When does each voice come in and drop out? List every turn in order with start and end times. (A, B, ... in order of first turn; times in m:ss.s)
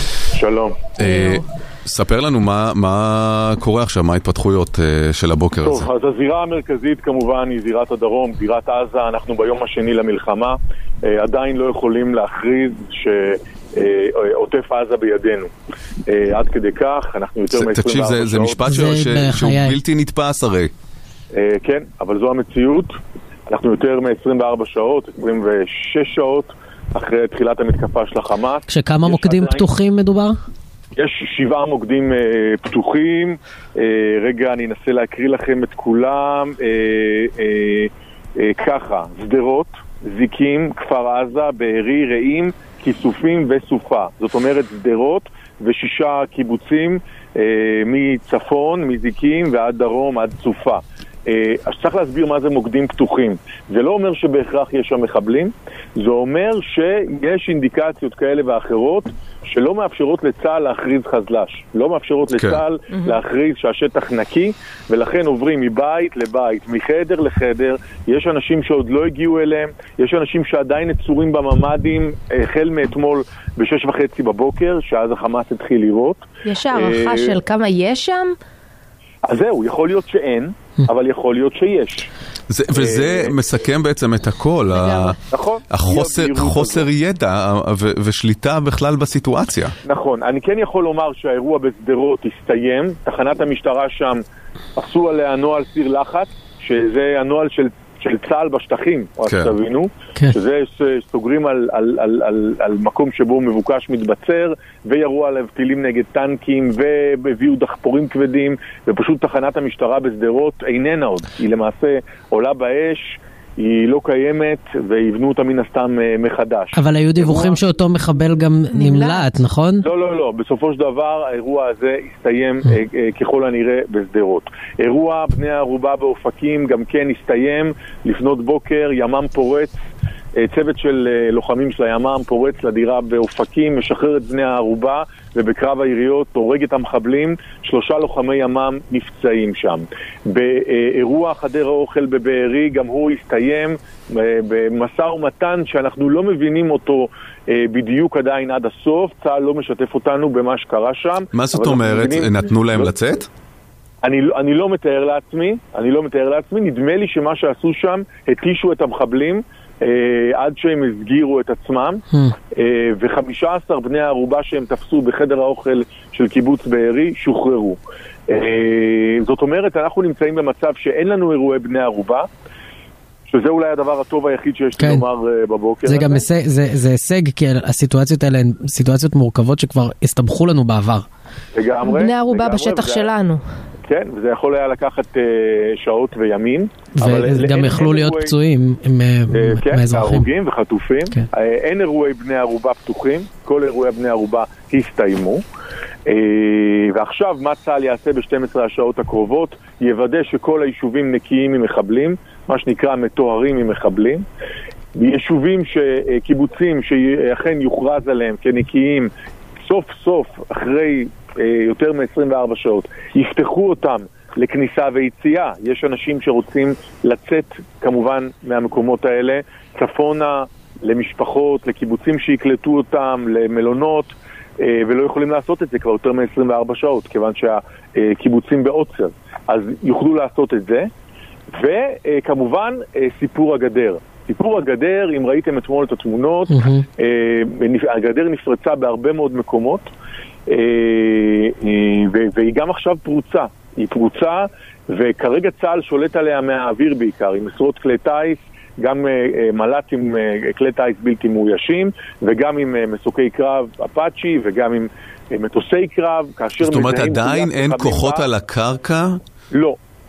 0:00.3-0:00.9 A
0:01.0-0:05.9 B
0:01.0-0:01.4 C
0:05.6-0:15.5 A
0:16.0-0:18.6 A
0:17.5-0:20.7 B
0:18.6-0:19.8 D
0:21.3-0:23.0 A
0:23.5-0:29.7 A
0:28.7-0:30.4 D
0:31.0-1:17.4 A
1:02.3-1:02.6 B
1:02.9-1:03.2 C
1:16.4-1:18.3 C
1:19.2-1:22.1 A
1:22.5-1:25.2 B
1:22.7-1:23.3 A
1:24.7-1:25.1 C
1:25.3-1:26.9 A
1:25.7-1:29.7 B
1:29.8-1:34.2 A
1:34.8-1:57.6 A
1:39.2-1:39.5 B
1:56.7-1:59.9 D
1:58.7-1:59.3 C
1:59.8-2:09.7 A
2:10.4-2:32.9 A
2:31.3-2:33.3 B
2:34.0-2:42.0 A
2:42.5-2:47.8 A
2:48.3-2:52.3 A
2:53.3-2:56.2 A
2:54.8-2:55.0 D
2:55.8-3:01.0 D
3:01.5-3:03.1 A
3:01.8-3:03.4 C
3:03.8-3:08.3 A
3:07.0-3:10.2 D
3:09.3-3:15.4 A
3:16.1-3:24.2 A
3:24.9-3:29.1 A
3:29.6-3:50.9 A
3:51.5-3:59.9 A
3:56.5-3:56.8 D
4:00.5-4:18.3 A
4:16.6-4:19.2 B
4:19.5-4:19.8 A